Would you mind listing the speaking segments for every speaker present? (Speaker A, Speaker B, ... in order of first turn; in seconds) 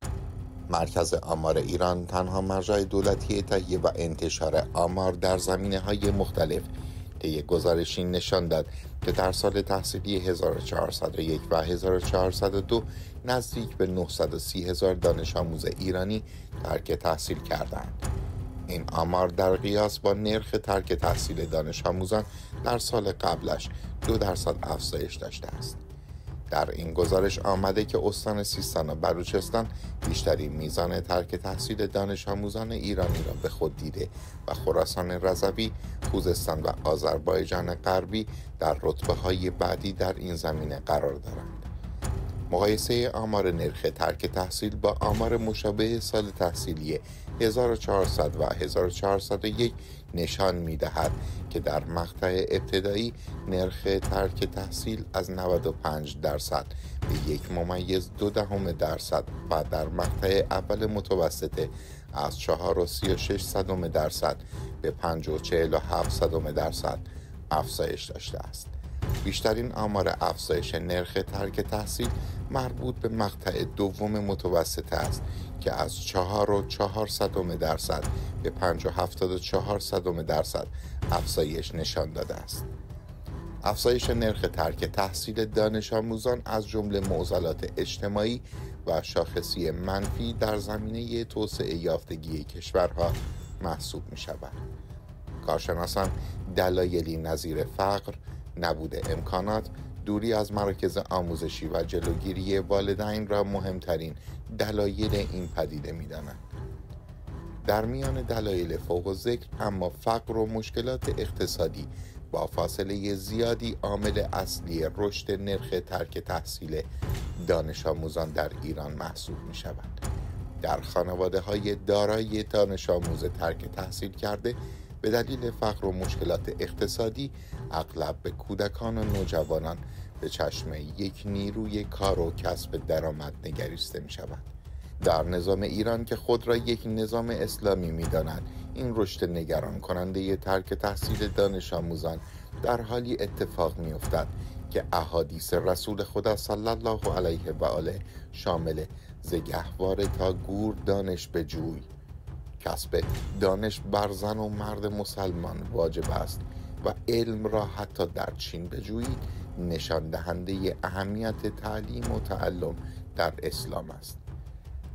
Speaker A: 0.7-6.7, 7.2-18.0, 18.7-25.8, 26.5-41.7, 42.5-82.7, 83.6-94.6, 95.4-106.4, 107.7-116.9, 117.4-120.0, 120.6-151.9, 152.6-164.2